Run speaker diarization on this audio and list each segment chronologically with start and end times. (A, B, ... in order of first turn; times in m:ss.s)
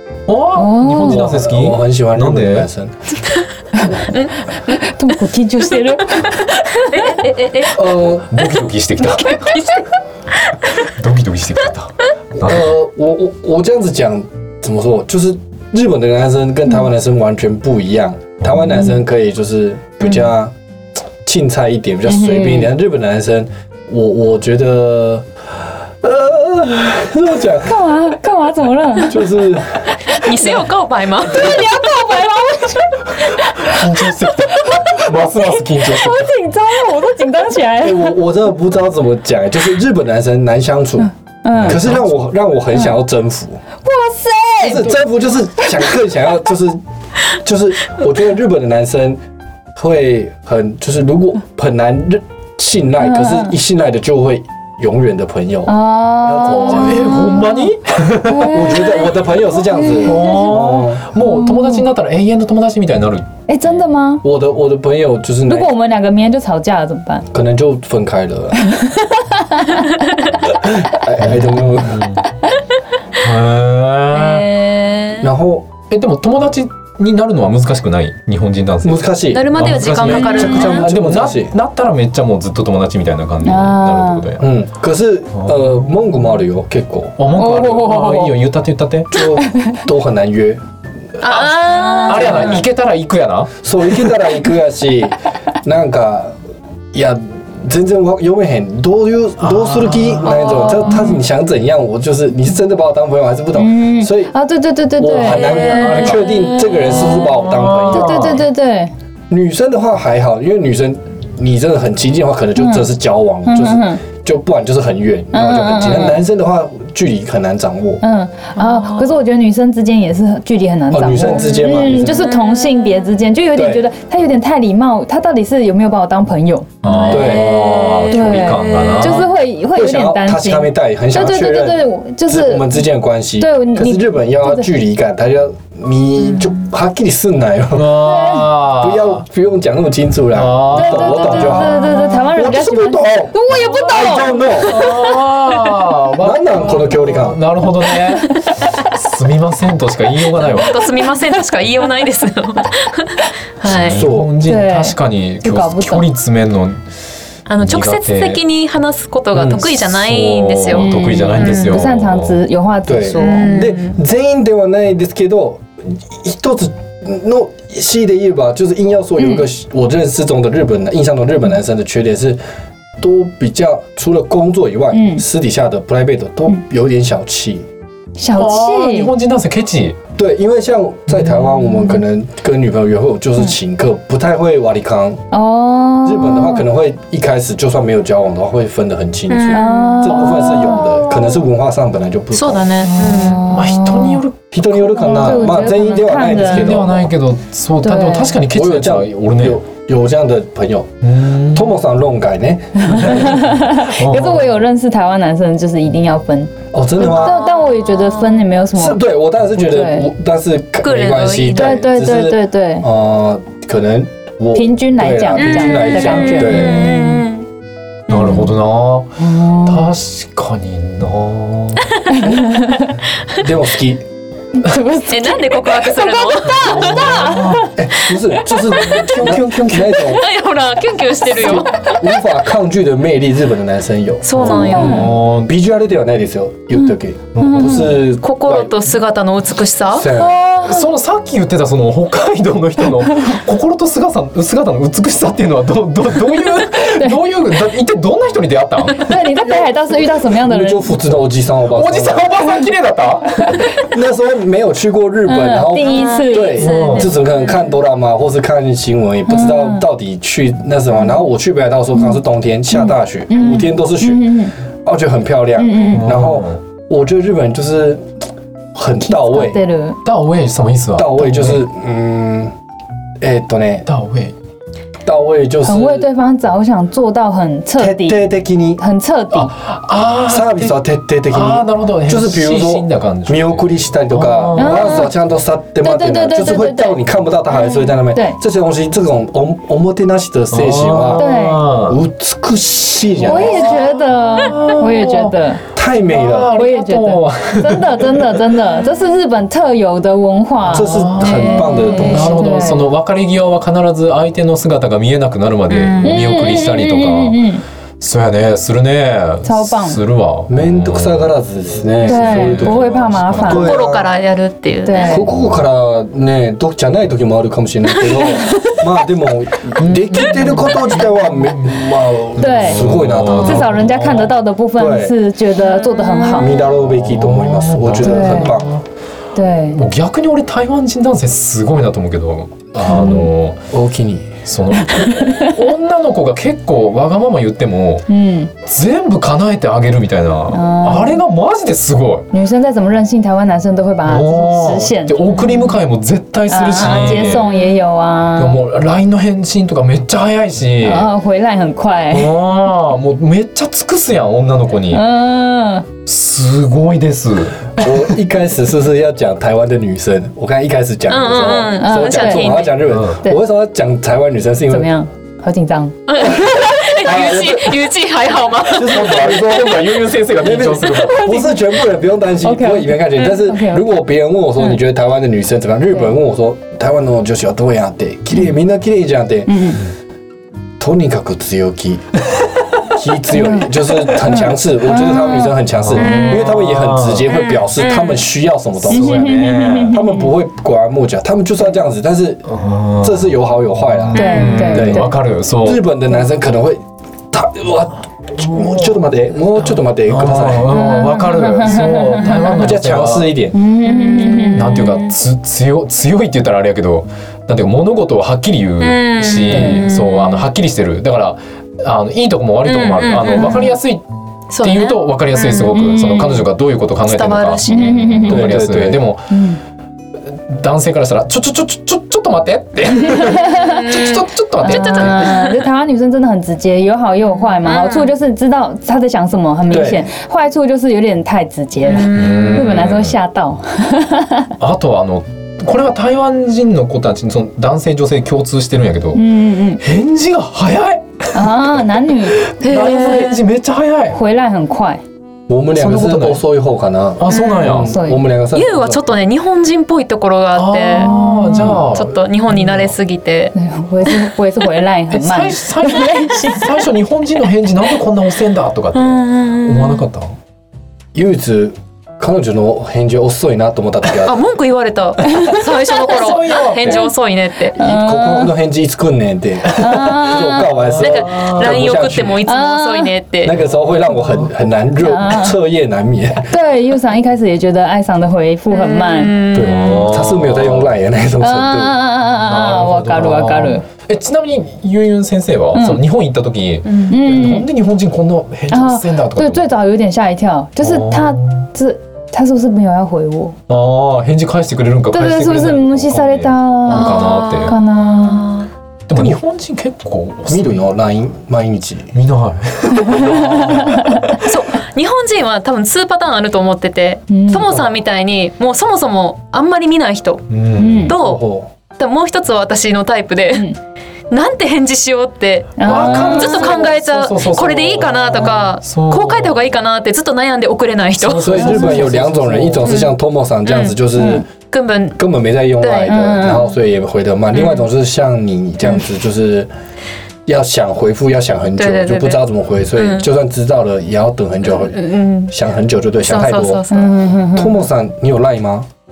0:00.3-0:02.7 A
0:00.5-0:01.3 B
0:01.0-0:02.9 C
0:03.7-0:04.0 B
0:04.7-0:07.2 B
0:06.9-0:07.9 D
0:07.7-0:08.3 C
0:08.1-0:09.6 A
0:09.0-0:09.8 D
0:10.8-0:12.7 A
0:12.4-0:20.5 C
0:18.4-0:18.9 A
0:21.2-0:25.2 C
0:22.1-0:22.7 B
0:26.0-0:27.9 C
0:27.6-0:29.3 B
0:29.0-0:29.9 C
0:30.1-0:31.6 D
0:30.2-0:30.6 B
0:31.2-0:38.2 B
0:31.2-0:31.8 C
0:33.6-0:36.3 A
0:37.8-0:43.6 C
0:41.4-0:41.8 B
0:41.5-0:42.0 A
0:43.8-0:44.9 B
0:44.6-0:46.8 C
0:47.3-0:49.2 C
0:49.7-0:57.3 C
0:53.0-0:53.5 B
0:55.6-0:57.7 B
0:56.4-0:58.8 A
0:58.2-0:59.1 B
0:58.5-1:01.0 C
0:59.7-1:00.6 B
1:00.0-1:03.3 A
1:01.2-1:01.8 B
1:03.5-1:04.2 B
1:04.2-1:05.7 C
1:05.4-1:07.2 B
1:07.3-1:08.6 C
1:08.6-1:09.8 B
1:10.5-1:12.1 C
1:11.2-1:12.2 A
1:13.2-1:14.7 A
1:14.2-1:15.2 D
1:15.2-1:15.7 C
1:15.9-1:24.4 A
1:18.8-1:21.5 C
1:19.3-1:20.9 D
1:23.4-1:24.2 B
1:24.4-1:27.2 C
1:25.3-1:25.7 A
1:27.2-1:29.2 A
1:27.3-1:28.4 B
1:29.1-1:30.6 C
1:29.4-1:29.8 B
1:31.2-1:32.6 D
1:31.2-1:33.5 A
1:31.8-1:32.6 B
1:33.6-1:36.4 C
1:36.9-1:44.3 C
1:39.4-1:41.0 A
1:40.2-1:41.2 D
1:43.6-1:46.1 B
1:45.0-1:48.4 C
1:45.3-1:46.8 D
1:45.7-1:48.4 A
1:47.9-1:48.9 B
1:49.3-1:58.0 C
1:52.6-1:52.9 B
1:53.4-1:54.0 B
1:55.3-1:56.2 B
1:58.0-2:07.0 B
1:58.6-1:59.1 D
2:00.9-2:02.3 C
2:02.1-2:03.0 D
2:03.5-2:03.8 C
2:06.8-2:09.3 A
2:06.8-2:09.2 D
2:07.1-2:07.6 C
2:08.1-2:12.8 B
2:09.7-2:18.1 C
2:13.4-2:14.7 B
2:17.7-2:19.2 A
2:18.0-2:18.5 B
2:18.7-2:24.8 C
2:20.3-2:21.9 A
2:20.7-2:24.9 B
2:24.6-2:30.8 A
2:26.2-2:27.4 C
2:30.5-2:34.1 D
2:33.6-2:36.8 A
2:33.9-2:34.3 C
2:34.4-2:36.1 B
2:37.5-2:41.9 D
2:37.6-2:38.4 A
2:39.3-2:39.8 C
2:39.8-2:42.4 A
2:40.7-2:43.6 B
2:42.8-2:52.4 C
2:43.1-2:44.0 D
2:53.0-2:57.6 C
2:54.9-2:55.2 B
2:58.2-2:59.1 B
2:58.3-3:00.0 A
3:00.2-3:05.2 C
3:05.3-3:06.6 B
3:06.0-3:12.8 C
3:09.3-3:10.4 D
3:09.5-3:11.2 B
3:12.3-3:13.4 D
3:12.8-3:14.2 B
3:13.0-3:15.6 A
3:14.5-3:17.1 C
3:15.0-3:16.8 B
3:16.2-3:19.6 A
3:17.8-3:18.4 B
3:18.5-3:23.3 C
3:21.0-3:21.7 A
3:22.9-3:29.0 B
3:23.0-3:24.6 A
3:26.7-3:27.4 C
3:27.0-3:28.5 D
3:28.7-3:36.9 C
3:29.6-3:30.1 B
3:30.8-3:31.8 D
3:31.5-3:32.9 B
3:34.5-3:37.2 B
3:35.3-3:37.4 D
3:38.1-3:42.1 A
3:38.1-3:38.5 B
3:39.2-3:39.9 B
3:42.1-3:43.0 B
3:43.3-3:44.0 C
3:44.5-3:47.7 B
3:45.1-3:47.3 D
3:46.4-3:47.7 A
3:47.7-3:50.2 C
3:48.6-3:52.0 D
3:48.8-3:50.0 A
3:51.2-3:58.7 C
3:54.2-3:55.2 D
3:54.3-3:55.5 A
3:54.4-3:55.1 B
3:57.3-3:58.0 A
3:57.4-3:57.9 B
3:58.2-4:00.1 D
3:59.9-4:00.4 C
4:00.2-4:00.8 B
4:00.6-4:09.2 A
4:06.8-4:07.2 B
4:08.9-4:10.9 B
4:09.4-4:09.7 C
4:10.3-4:12.3 C
4:11.7-4:13.6 A
4:13.5-4:13.8 B
4:13.9-4:28.0 C
4:15.3-4:16.7 B
4:15.8-4:17.7 D
4:16.6-4:17.1 A
4:19.3-4:19.8 B
4:22.7-4:24.5 B
4:25.6-4:26.2 B
4:25.9-4:26.6 A
4:28.7-4:29.6 C
4:29.0-4:30.0 B
4:30.0-4:31.6 A
4:30.9-4:32.5 C
4:33.2-4:33.9 C
4:33.8-4:34.3 A
4:35.0-4:36.1 C
4:35.6-4:38.2 B
4:37.8-4:38.8 C
4:38.8-4:39.5 B
4:39.3-4:40.8 A
4:40.3-4:51.3 C
4:41.3-4:45.0 A
4:44.6-4:45.1 B
4:45.8-4:47.0 B
4:48.1-4:48.4 B
4:50.5-4:52.0 A
4:51.2-4:51.6 B
4:51.8-4:53.8 C
4:53.2-4:55.3 A
4:53.2-4:55.6 B
4:55.7-4:56.5 C
4:56.1-4:58.4 A
4:56.5-5:02.9 B
5:00.7-5:02.7 C
5:00.7-5:07.4 A
5:05.7-5:06.3 D
5:06.0-5:07.6 B
5:08.0-5:11.3 A
5:09.4-5:10.0 B
5:10.5-5:14.1 C
5:12.0-5:13.6 A
5:12.0-5:13.8 B
5:13.5-5:15.2 D
5:14.8-5:15.3 B
5:15.0-5:24.1 C
5:19.8-5:21.7 A
5:22.4-5:26.5 B
5:22.4-5:24.3 A
5:24.7-5:25.2 C
5:25.7-5:26.5 D
5:26.3-5:28.7 C
5:26.7-5:28.8 A
5:28.0-5:28.6 B
5:29.3-5:29.8 B
5:29.7-5:33.6 A
5:32.8-5:33.3 B
5:33.7-5:34.3 C
5:34.4-5:38.1 A
5:34.8-5:35.5 B
5:38.1-5:38.5 B
5:38.6-5:42.3 A
5:40.5-5:41.2 B
5:42.3-5:45.7 B
5:44.0-5:47.5 A
5:46.5-5:48.6 B
5:46.8-5:47.4 D
5:48.4-5:51.1 A
5:50.8-5:52.3 B
5:52.1-5:55.0 A
5:54.9-5:55.9 B
5:56.0-5:57.9 A
5:57.8-6:04.9 C
6:01.1-6:02.8 D
6:01.8-6:02.6 B
6:02.8-6:03.2 A
6:04.7-6:05.9 B
6:06.1-6:09.2 D
6:06.9-6:07.8 C
6:08.7-6:19.8 C
6:08.8-6:11.5 A
6:11.0-6:11.6 B
6:12.4-6:13.9 B
6:19.5-6:19.8 B
6:20.8-6:22.1 C
6:22.9-6:32.4 C
6:23.3-6:25.5 B
6:25.8-6:27.3 A
6:26.0-6:26.6 D
6:27.2-6:28.3 D
6:28.8-6:30.0 A
6:28.9-6:30.3 B
6:32.4-6:33.3 A
6:33.0-6:40.8 C
6:33.9-6:35.8 A
6:34.1-6:35.2 B
6:38.4-6:39.0 A
6:39.6-6:43.4 A
6:40.7-6:42.7 B
6:42.3-6:43.6 C
6:43.5-6:44.9 B
6:43.8-6:45.1 D
6:44.4-6:54.0 A
6:48.8-6:50.5 D
6:49.5-6:49.9 B
6:52.6-6:53.8 D
6:54.5-6:55.8 D
6:54.6-6:59.4 A
6:55.6-6:56.5 B
6:57.0-6:58.4 D
6:57.7-6:58.5 B
6:58.2-6:59.1 C
6:59.3-6:59.6 B
7:00.3-7:05.4 A
7:03.1-7:03.8 B
7:03.4-7:05.6 D
7:04.6-7:14.5 B
7:07.4-7:08.1 D
7:09.7-7:10.1 C
7:11.8-7:12.8 D
7:12.0-7:13.2 A
7:14.6-7:19.2 A
7:19.1-7:19.8 B
7:19.8-7:24.2 A
7:21.3-7:22.4 B
7:22.6-7:23.4 D
7:24.1-7:25.0 B
7:25.5-7:29.0 C
7:25.7-7:26.4 A
7:27.2-7:28.0 A
7:27.3-7:27.8 D
7:27.9-7:28.2 B
7:28.5-7:33.5 D
7:30.5-7:32.9 A
7:30.9-7:31.9 B
7:33.5-7:36.8 B
7:35.1-7:40.3 A
7:38.9-7:40.1 D
7:41.1-7:44.4 C
7:44.1-7:47.8 D
7:45.3-7:47.1 A
7:47.8-7:48.5 B
7:47.8-7:52.4 C
7:49.7-7:50.7 B
7:49.8-7:51.8 A
7:51.0-7:53.6 D
7:52.4-7:53.1 B
7:53.4-7:56.5 C
7:53.7-7:54.5 A
7:55.0-7:55.6 B
7:56.5-7:59.4 B
7:58.7-8:00.1 D
7:59.5-8:02.0 C
7:59.5-8:00.9 A
8:01.4-8:03.8 B
8:02.4-8:09.7 A
8:05.7-8:06.0 B
8:06.8-8:07.2 D
8:07.1-8:07.7 B
8:08.7-8:13.6 B
8:10.8-8:11.6 A
8:13.7-8:17.8 A
8:15.1-8:18.5 B
8:16.9-8:18.7 D
8:19.1-8:20.8 A
8:19.1-8:19.4 C
8:20.5-8:22.1 C
8:22.1-8:24.4 A
8:23.2-8:23.7 C
8:24.4-8:30.5 D
8:27.3-8:27.7 B
8:30.5-8:31.2 A
8:30.8-8:31.2 B
8:31.0-8:31.4 D
8:31.2-8:31.7 C
8:32.0-8:33.7 D
8:34.3-8:41.7 D
8:35.8-8:36.8 B
8:35.8-8:39.7 A
8:41.1-8:43.0 A
8:41.4-8:44.5 C
8:41.6-8:42.1 B
8:42.8-8:43.1 D
8:43.6-8:44.0 D
8:44.2-8:44.4 B
8:44.7-8:45.2 D
8:45.2-8:49.7 C
8:45.8-8:46.6 D
8:46.1-8:46.7 B
8:47.5-8:47.8 D
8:50.4-8:56.8 C
8:51.8-8:53.2 D
8:54.8-8:55.5 D
8:56.2-8:57.2 D
8:56.9-8:57.8 B
8:57.5-8:58.9 C